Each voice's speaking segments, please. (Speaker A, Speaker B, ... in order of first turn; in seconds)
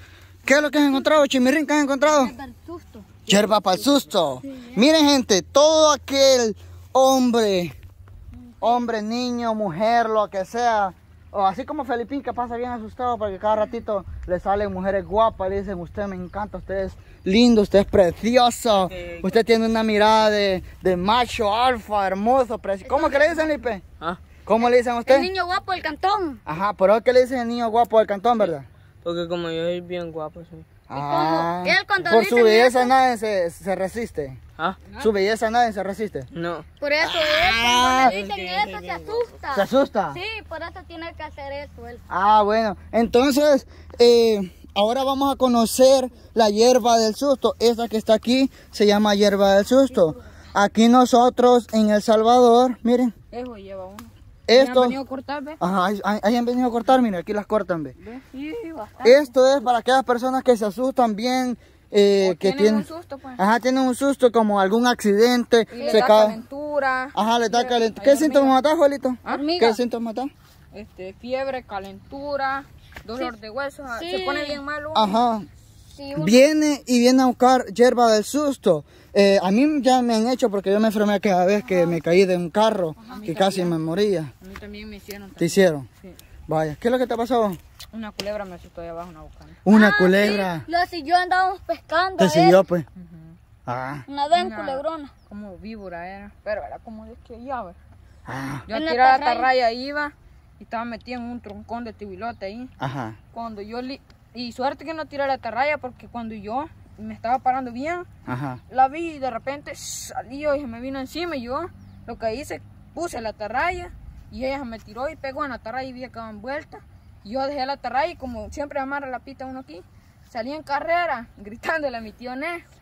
Speaker A: 0.5-2.4, 3.3-7.8, 8.6-23.8, 24.5-25.3, 26.5-28.7, 30.9-34.4, 35.0-36.3, 37.0-38.2, 39.5-40.2, 42.1-53.1, 54.5-55.0, 55.6-58.0, 59.0-62.9, 63.4-66.4, 67.1-70.3, 74.9-75.5, 76.2-84.3, 85.4-85.9, 86.5-87.6, 89.7-90.7, 92.2-92.9, 93.7-94.1, 98.3-98.7, 102.8-103.2, 108.3-108.6
Speaker B: 0.5-1.1, 2.1-4.8, 8.3-8.9, 22.9-23.6, 24.6-26.4, 30.9-32.9, 36.8-42.0, 65.7-66.1, 69.3-69.8, 73.9-74.6, 75.9-76.4, 89.7-92.6, 94.1-95.1, 98.7-99.5
Speaker C: 18.7-19.4, 29.0-30.7, 36.3-36.7, 38.0-39.3
Speaker D: 34.8-35.1, 53.3-55.6, 58.0-59.3, 62.2-63.4, 65.7-68.6, 70.7-75.2, 83.0-83.7, 84.4-86.2, 87.9-89.6, 93.0-93.4, 94.3-97.8, 98.7-102.7, 103.3-108.1, 108.7-122.6